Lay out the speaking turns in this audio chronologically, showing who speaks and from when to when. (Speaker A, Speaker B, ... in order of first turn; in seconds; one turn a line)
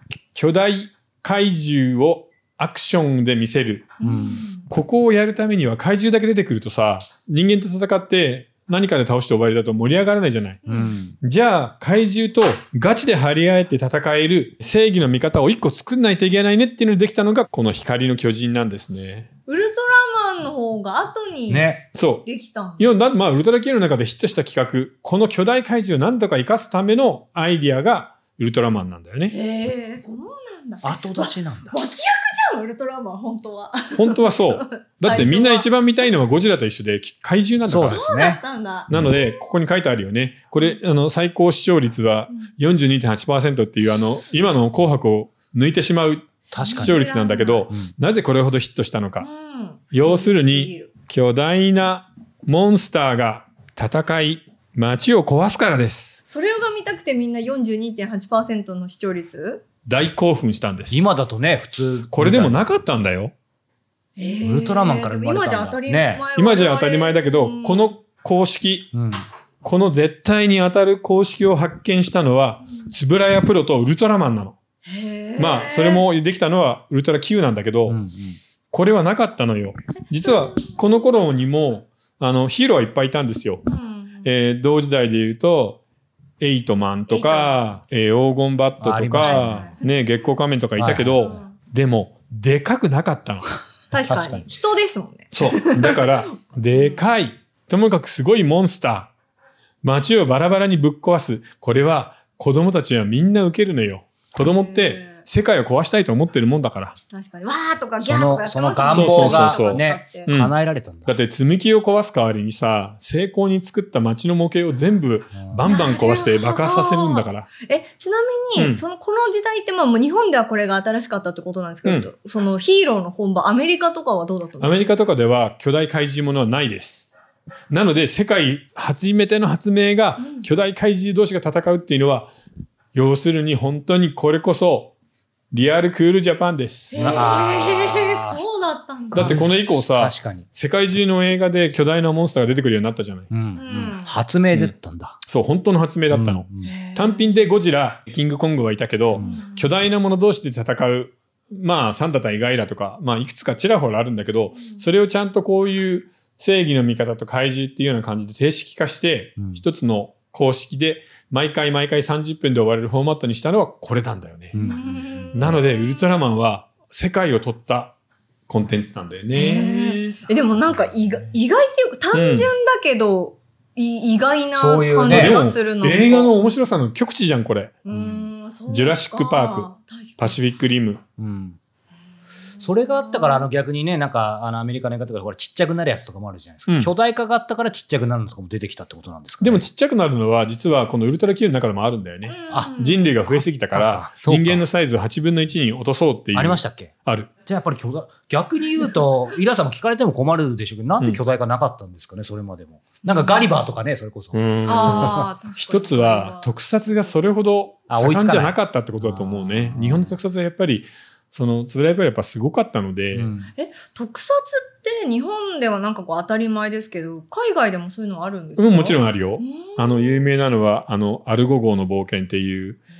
Speaker A: 0.3-4.0
Speaker B: 4.0-4.7
Speaker C: 4.0-4.5
Speaker A: 4.7-10.6
Speaker B: 10.7-11.0
Speaker C: 10.7-11.2
Speaker A: 11.2-19.3
Speaker B: 19.5-22.9
Speaker C: 21.5-21.8
Speaker A: 21.9-22.2
Speaker A: 22.8-29.4
Speaker B: 29.3-35.7
Speaker C: 30.8-31.8
Speaker A: 34.0-38.0
Speaker C: 37.6-39.1
Speaker B: 37.8-39.4
Speaker A: 38.9-49.2
Speaker B: 46.5-47.7
Speaker C: 46.5-47.0
Speaker B: 49.2-50.9
Speaker A: 49.9-56.2
Speaker B: 56.3-59.6
Speaker A: 59.9-61.1
Speaker C: 60.9-62.7
Speaker A: 62.1-63.3
Speaker B: 64.2-67.9
Speaker C: 64.4-66.2
Speaker A: 66.3-68.9
Speaker C: 68.9-69.2
Speaker A: 69.6-74.5
Speaker B: 74.8-76.1
Speaker A: 75.4-78.0
Speaker C: 77.9-78.4
Speaker A: 78.7-83.6
Speaker B: 80.2-81.1
Speaker B: 83.7-84.3
Speaker A: 84.2-85.8
Speaker A: 86.4-93.5
Speaker B: 87.1-87.8
Speaker C: 88.8-89.7
Speaker B: 89.2-89.8
Speaker C: 90.8-91.2
Speaker B: 90.9-91.5
Speaker B: 93.9-96.2
Speaker C: 94.0-94.5
Speaker A: 95.3-99.1
Speaker B: 96.7-97.0
Speaker A: 99.8-107.0
Speaker B: 104.4-105.2
Speaker B: 107.1-110.3
Speaker C: 108.0-111.2
Speaker A: 108.9-110.5
Speaker A: 111.0-117.5
Speaker C: 115.3-115.7
Speaker B: 115.7-124.9
Speaker A: 118.5-118.8
Speaker A: 124.6-132.3
Speaker B: 130.2-130.5
Speaker A: 132.9-134.9
Speaker A: 135.5-137.2
Speaker B: 136.9-139.4
Speaker C: 137.0-138.5
Speaker A: 139.1-143.3
Speaker C: 139.1-140.5
Speaker C: 143.3-145.2
Speaker B: 143.5-144.2
Speaker A: 145.2-164.6
Speaker C: 146.1-146.7
Speaker B: 146.6-147.5
Speaker C: 149.2-149.4
Speaker B: 149.2-149.7
Speaker B: 154.5-154.9
Speaker C: 159.4-159.6
Speaker C: 164.5-165.6
Speaker B: 164.6-166.2
Speaker A: 165.3-167.9
Speaker A: 168.5-170.2
Speaker B: 169.3-176.3
Speaker C: 170.7-171.2
Speaker A: 172.1-172.5
Speaker C: 174.6-175.4
Speaker A: 175.1-177.7
Speaker B: 177.8-180.4
Speaker C: 177.9-178.3
Speaker A: 178.7-181.0
Speaker C: 181.2-181.6
Speaker B: 182.6-183.5
Speaker C: 182.6-189.7
Speaker A: 186.7-186.9
Speaker A: 189.4-197.3
Speaker B: 192.2-193.2
Speaker C: 193.3-194.7
Speaker C: 196.3-196.9
Speaker C: 197.5-205.2
Speaker B: 203.0-203.6
Speaker A: 204.3-213.3
Speaker B: 204.7-206.5
Speaker C: 207.9-210.2
Speaker C: 213.1-213.5
Speaker B: 213.5-220.3
Speaker A: 218.6-222.8